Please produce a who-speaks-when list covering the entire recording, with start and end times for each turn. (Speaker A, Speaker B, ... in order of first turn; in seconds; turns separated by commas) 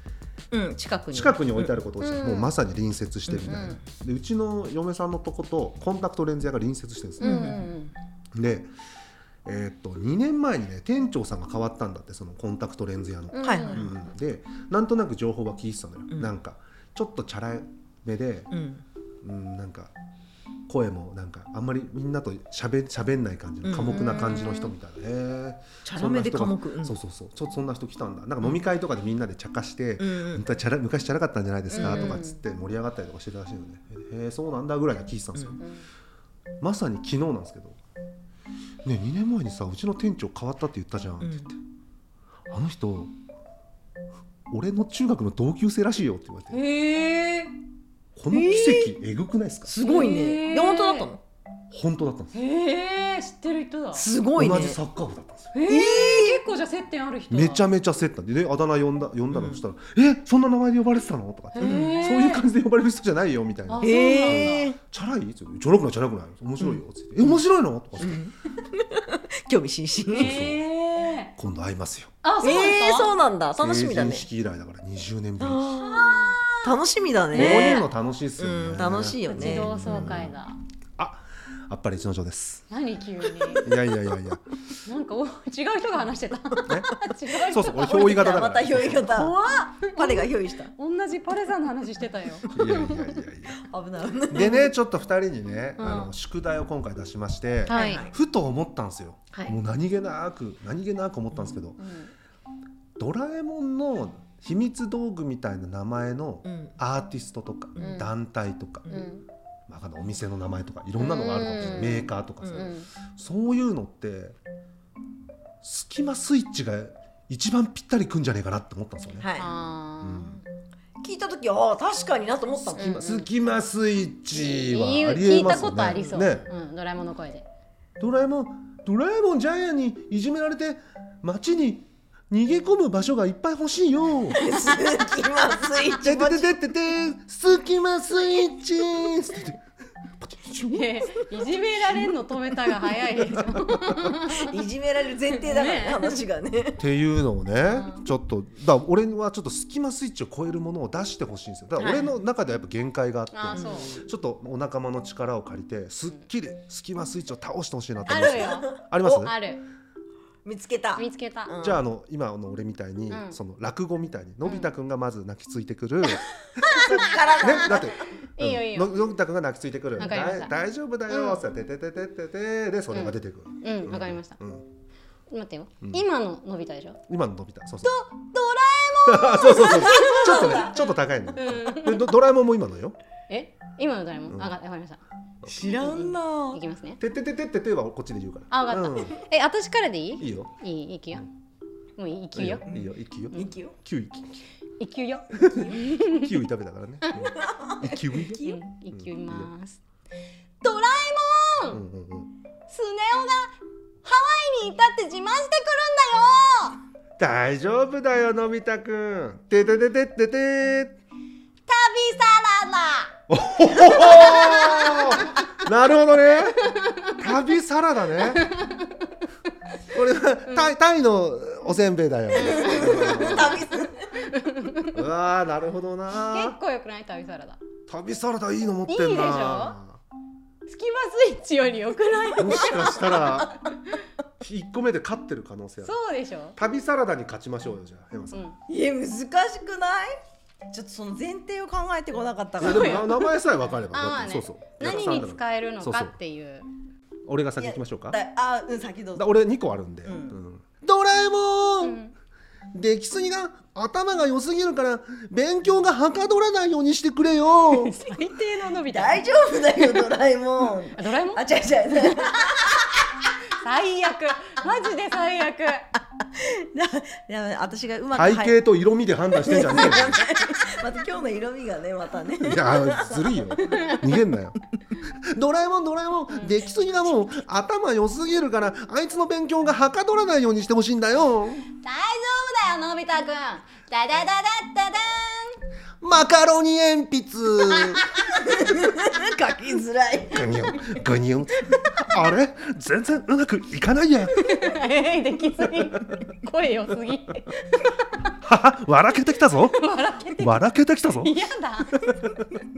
Speaker A: 0.5-1.8, Speaker B: 1.1-7.6, Speaker C: 2.0-2.5, Speaker A: 3.3-3.8, Speaker C: 7.2-8.0, Speaker A: 7.2-7.7, Speaker B: 8.3-8.7, Speaker B: 9.4-18.5, Speaker C: 13.3-13.9, Speaker A: 13.4-14.0, Speaker A: 18.5-18.8, Speaker B: 19.2-19.9, Speaker B: 20.7-35.6, Speaker A: 23.6-24.5, Speaker C: 23.9-24.7, Speaker A: 25.9-27.0, Speaker A: 30.0-30.4, Speaker C: 31.7-32.4, Speaker A: 31.8-32.2, Speaker A: 35.4-35.6, Speaker C: 35.6-35.9, Speaker B: 36.6-37.8, Speaker B: 38.8-41.5, Speaker A: 41.2-41.5, Speaker B: 42.5-43.1, Speaker B: 44.5-46.6, Speaker C: 46.5-47.5, Speaker B: 48.2-49.7, Speaker A: 48.3-49.0, Speaker A: 49.7-51.2, Speaker C: 49.8-51.1, Speaker B: 51.7-52.3, Speaker C: 52.3-54.1, Speaker A: 54.0-54.8, Speaker B: 54.4-55.5, Speaker C: 55.5-57.6, Speaker A: 55.7-56.4, Speaker B: 57.3-68.2, Speaker A: 59.3-59.6, Speaker C: 61.6-62.5, Speaker A: 61.6-62.0, Speaker C: 63.7-64.7, Speaker A: 63.8-64.8, Speaker A: 66.6-67.4, Speaker A: 68.0-70.4, Speaker C: 70.1-71.3, Speaker B: 70.2-70.6, Speaker B: 71.4-72.1, Speaker C: 72.2-73.1, Speaker A: 72.4-74.3, Speaker B: 73.6-75.8, Speaker A: 75.4-80.2, Speaker C: 75.8-76.7, Speaker C: 77.3-77.8, Speaker B: 77.3-80.3, Speaker C: 79.3-80.6, Speaker B: 81.0-82.7, Speaker C: 82.7-83.7, Speaker B: 83.5-84.4, Speaker C: 84.8-88.3, Speaker B: 86.7-89.1, Speaker A: 87.7-90.7, Speaker C: 89.0-92.6, Speaker B: 92.5-93.6, Speaker A: 92.5-94.7, Speaker B: 94.3-101.8, Speaker C: 95.8-96.1, Speaker C: 97.7-98.1, Speaker A: 97.7-98.1, Speaker C: 101.8-102.1, Speaker B: 103.0-109.0, Speaker A: 106.5-106.8, Speaker C: 107.8-108.1, Speaker C: 108.9-109.2, Speaker B: 109.7-114.4, Speaker C: 111.0-112.9, Speaker A: 112.4-112.7, Speaker B: 115.6-119.3, Speaker A: 119.2-119.5, Speaker C: 119.4-120.4, Speaker B: 120.0-120.4, Speaker A: 121.0-123.0, Speaker B: 122.8-126.5, Speaker C: 122.8-123.3, Speaker C: 124.3-127.5, Speaker B: 128.0-134.4, Speaker A: 134.3-136.6, Speaker B: 135.9-139.6, Speaker B: 140.2-141.2, Speaker C: 140.6-144.6, Speaker B: 143.2-144.0, Speaker A: 144.3-146.8, Speaker C: 145.3-146.2, Speaker B: 146.8-159.3, Speaker C: 147.7-148.0, Speaker A: 151.8-152.1, Speaker C: 153.3-153.9, Speaker A: 153.5-154.0, Speaker C: 158.1-159.6, Speaker A: 159.0-159.3, Speaker A: 160.4-161.8, Speaker C: 161.0-161.5, Speaker B: 161.6-166.3, Speaker C: 163.1-163.4, Speaker C: 164.4-164.7, Speaker A: 166.6-167.9, Speaker B: 167.4-174.7, Speaker C: 168.4-169.1, Speaker C: 170.0-170.5, Speaker C: 171.1-171.4, Speaker C: 172.9-174.4, Speaker C: 175.3-177.0, Speaker B: 177.1-178.0, Speaker C: 177.8-182.1, Speaker B: 179.0-183.0, Speaker C: 183.3-185.0, Speaker A: 185.4-186.6, Speaker C: 185.8-187.0, Speaker B: 187.0-189.2, Speaker C: 188.5-191.3, Speaker B: 190.2-190.5, Speaker C: 192.0-192.7, Speaker B: 192.3-194.4, Speaker A: 192.7-193.7, Speaker C: 194.8-196.3, Speaker B: 195.4-199.5, Speaker A: 195.6-196.0, Speaker C: 197.1-197.3, Speaker A: 197.2-198.6, Speaker C: 198.4-199.8, Speaker C: 200.6-201.8, Speaker B: 201.7-202.3, Speaker C: 202.7-206.8, Speaker B: 207.2-211.0, Speaker C: 211.7-213.1, Speaker B: 213.3-218.5, Speaker C: 213.8-215.3, Speaker C: 216.7-217.1, Speaker C: 218.4-218.9, Speaker B: 219.9-223.7, Speaker A: 222.3-224.1, Speaker C: 222.4-223.4, Speaker C: 224.2-225.0, Speaker B: 224.9-226.6, Speaker C: 226.1-227.6, Speaker B: 227.9-230.0, Speaker C: 228.9-229.8, Speaker C: 230.7-233.4, Speaker B: 232.4-233.5, Speaker A: 232.7-233.5, Speaker B: 234.4-236.0, Speaker C: 235.8-236.6, Speaker B: 236.6-238.4, Speaker A: 238.7-240.2, Speaker A: 240.7-243.1, Speaker C: 242.6-243.3, Speaker B: 242.6-246.2, Speaker C: 243.9-246.7, Speaker B: 247.3-248.2, Speaker A: 247.6-249.4, Speaker B: 249.2-252.0, Speaker A: 250.1-250.4, Speaker C: 251.8-252.1, Speaker B: 252.7-257.9, Speaker C: 257.6-259.2, Speaker A: 258.9-263.0, Speaker C: 260.9-262.2, Speaker C: 263.6-265.9, Speaker A: 266.3-268.7, Speaker B: 268.1-270.3, Speaker A: 269.3-274.0, Speaker B: 272.4-281.6, Speaker C: 276.3-276.6, Speaker C: 281.8-285.6, Speaker B: 286.0-288.0, Speaker A: 288.4-290.5, Speaker B: 290.3-294.4, Speaker C: 294.4-297.6, Speaker B: 298.4-301.4, Speaker C: 299.6-302.4